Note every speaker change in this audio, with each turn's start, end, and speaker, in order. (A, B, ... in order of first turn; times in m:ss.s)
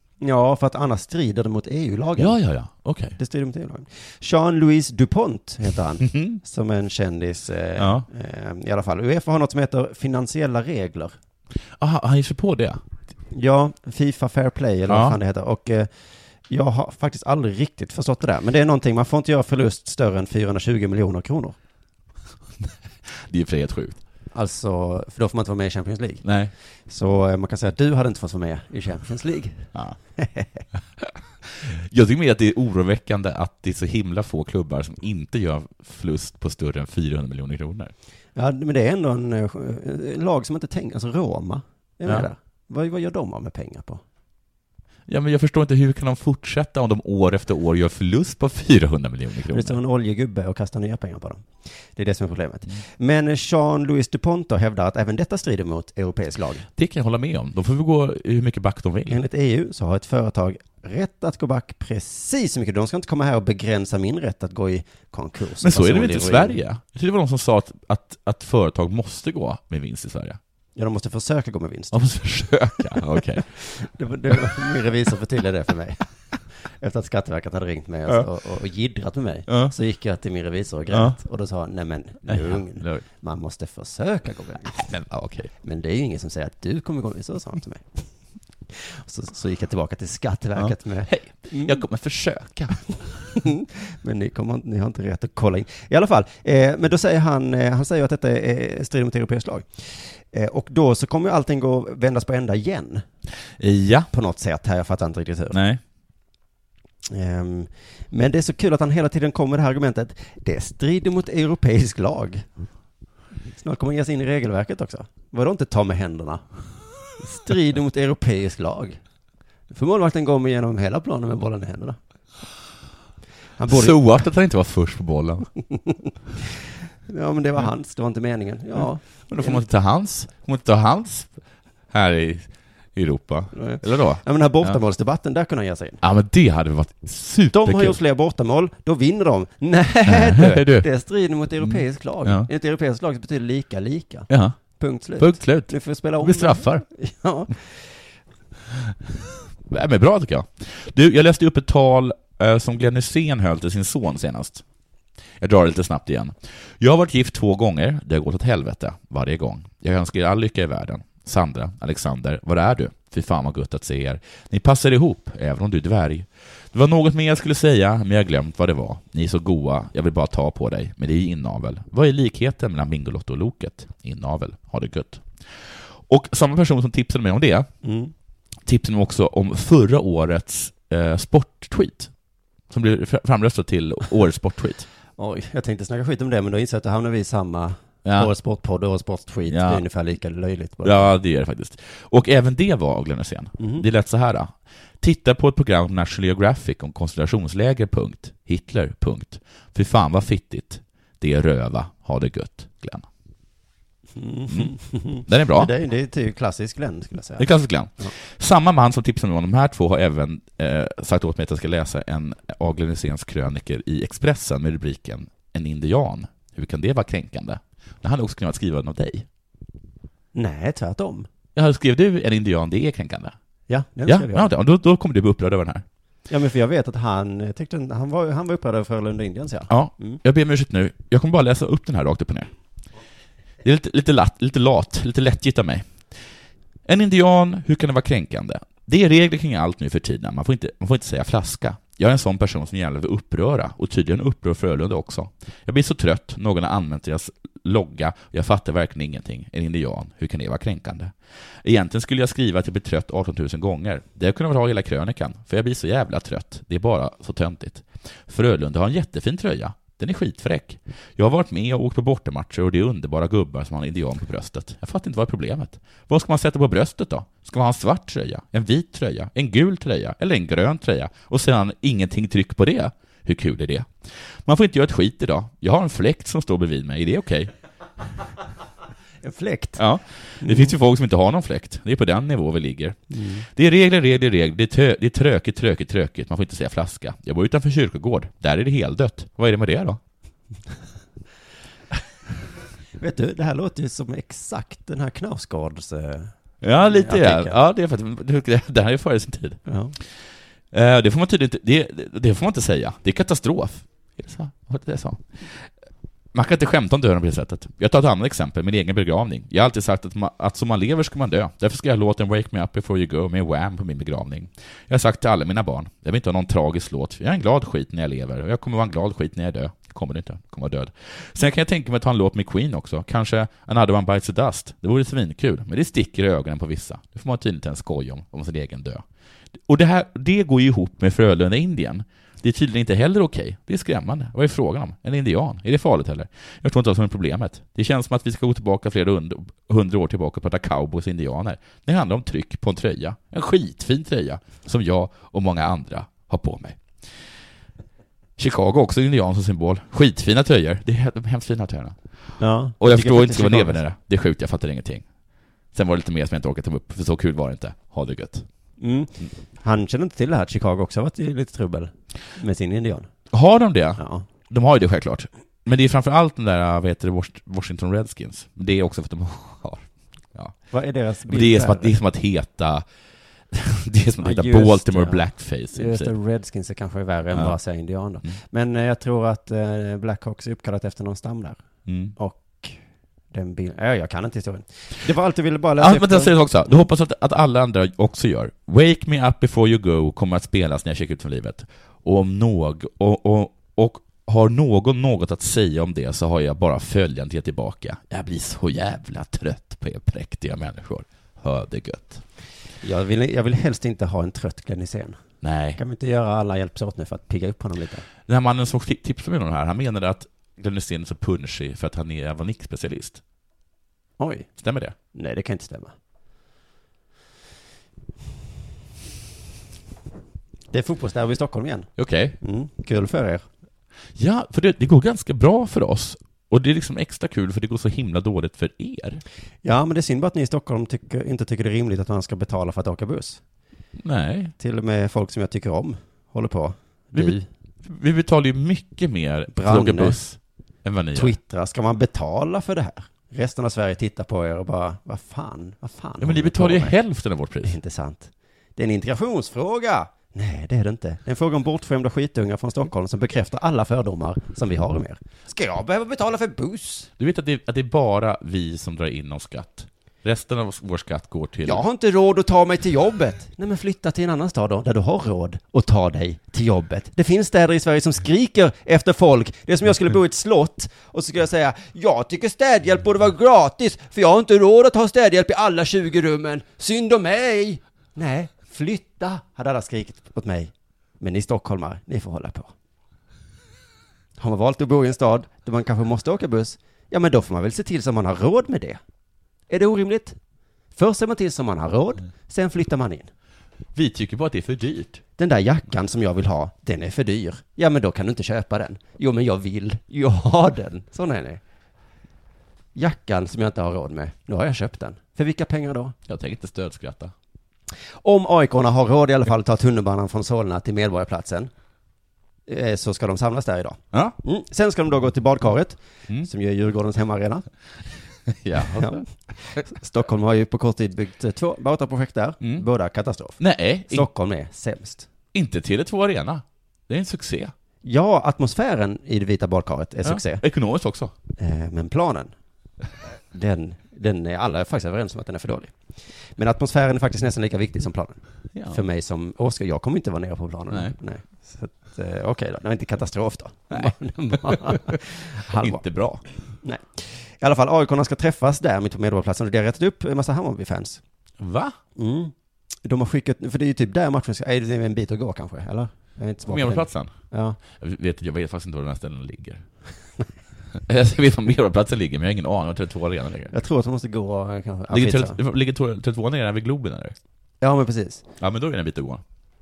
0:00.2-0:02.4 A
0:02.2-0:03.2 B
0:03.2-0:11.1 A
0:06.0-0:06.4 B
0:07.8-0:08.0 B
0:11.8-0:12.8 B
0:13.3-0:15.9 A
0:14.9-0:15.2 B
0:16.5-0:21.6 A
0:22.6-0:24.0 B
0:24.3-0:26.2 A
0:26.2-0:26.5 B
0:26.9-0:30.6 A
0:31.0-0:37.9 B
0:38.4-0:44.0 A
0:45.1-0:49.8 B
0:49.5-0:56.6 A
0:56.8-0:59.2 B
0:59.1-1:06.6 A
1:05.6-1:10.4 B
1:10.8-1:12.0 A
1:11.9-1:13.6 B
1:13.6-1:16.1 A
1:16.8-1:24.8 A
1:19.5-1:19.7 B
1:20.9-1:21.2 B
1:22.2-1:23.0 B
1:24.7-1:25.5 B
1:25.6-1:28.0 A
1:28.7-1:31.8 A
1:30.6-1:33.4 B
1:33.4-1:43.0 A
1:43.6-1:44.1 B
1:44.1-1:45.6 A
1:45.5-1:45.8 B
1:47.1-1:52.5 A
1:53.5-1:56.4 A
1:57.2-1:59.0 A
1:59.7-2:02.0 A
2:03.6-2:04.0 A
2:03.7-2:05.5 B
2:07.1-2:09.6 A
2:09.3-2:11.3 B
2:11.9-2:14.8 B
2:13.5-2:16.0 A
2:16.0-2:18.0 B
2:17.5-2:27.8 A
2:20.0-2:20.9 B
2:21.6-2:22.5 B
2:24.3-2:24.6 B
2:25.2-2:26.8 B
2:29.6-2:34.6 B
2:35.4-2:57.7 B
2:57.8-2:58.1 A
2:58.6-3:02.1 B
3:02.7-3:04.9 B
3:05.2-3:11.1 A
3:08.0-3:08.3 B
3:09.5-3:09.8 B
3:10.8-3:23.1 B
3:13.6-3:13.8 A
3:24.2-3:27.5 A
3:25.2-3:25.7 B
3:27.4-3:39.3 B
3:40.3-3:41.3 A
3:41.5-3:43.3 B
3:43.7-3:44.5 A
3:44.0-3:45.8 B
3:46.3-3:50.2 A
3:49.7-3:52.5 B
3:53.6-3:56.2 B
3:56.8-4:37.5 B
4:39.2-4:39.8 A
4:39.8-4:50.0 B
4:40.4-4:40.7 A
4:43.1-4:43.4 A
4:53.0-4:57.6 A
4:56.6-4:59.6 B
4:59.7-5:00.0 A
5:00.7-5:05.5 B
5:06.3-5:29.0 B
5:29.7-5:46.8 B
5:48.4-5:52.0 B
5:52.4-5:53.8 A
5:52.8-5:55.0 B
5:55.7-5:58.4 B
5:58.8-6:03.1 A
6:03.3-6:10.6 B
6:04.0-6:04.2 A
6:10.7-6:12.0 A
6:11.3-6:12.8 B
6:13.5-6:16.1 B
6:14.2-6:21.6 A
6:21.9-6:22.1 B
6:22.2-6:22.8 A
6:23.3-6:26.3 A
6:25.8-6:42.2 B
6:42.8-6:45.2 A
6:45.4-6:45.8 B
6:45.8-6:48.0 A
6:48.3-6:53.2 B
6:54.2-6:54.5 A
6:54.6-6:55.0 B
6:55.1-6:55.9 A
7:00.7-7:03.4 A
7:02.0-7:02.4 B
7:04.2-7:09.2 B
7:09.6-7:13.4 A
7:14.0-7:14.5 B
7:14.6-7:17.4 A
7:17.1-7:21.4 B
7:19.5-7:20.2 A
7:21.1-7:27.0 A
7:26.2-7:27.8 B
7:27.6-7:37.1 A
7:37.2-7:41.8 B
7:41.6-8:02.7 A
8:04.4-8:09.0 A
8:09.7-8:10.4 A
8:10.9-8:13.3 A
8:13.9-8:15.2 B
8:15.4-8:21.6 A
8:22.9-8:26.1 A
8:26.3-8:27.3 B
8:28.2-8:31.7 A
8:32.7-8:37.6 A
8:38.5-8:39.2 B
8:38.8-8:43.6 A
8:43.6-8:44.3 B
8:44.1-8:45.3 A
8:45.5-8:47.7 B
8:48.0-8:50.6 A
8:50.2-8:51.3 B
8:51.6-8:52.5 A
8:53.5-8:55.9 A
8:56.6-9:06.0 A
8:58.7-8:59.0 B
9:03.9-9:06.4 B
9:06.8-9:11.2 A
9:11.6-9:12.0 B
9:12.2-9:12.5 A
9:13.0-9:17.8 A
9:16.6-9:17.3 B
9:17.9-9:19.8 B
9:20.9-9:23.7 B
9:23.7-9:25.6 A
9:25.1-9:27.3 B
9:27.8-9:28.4 A
9:28.6-9:29.4 B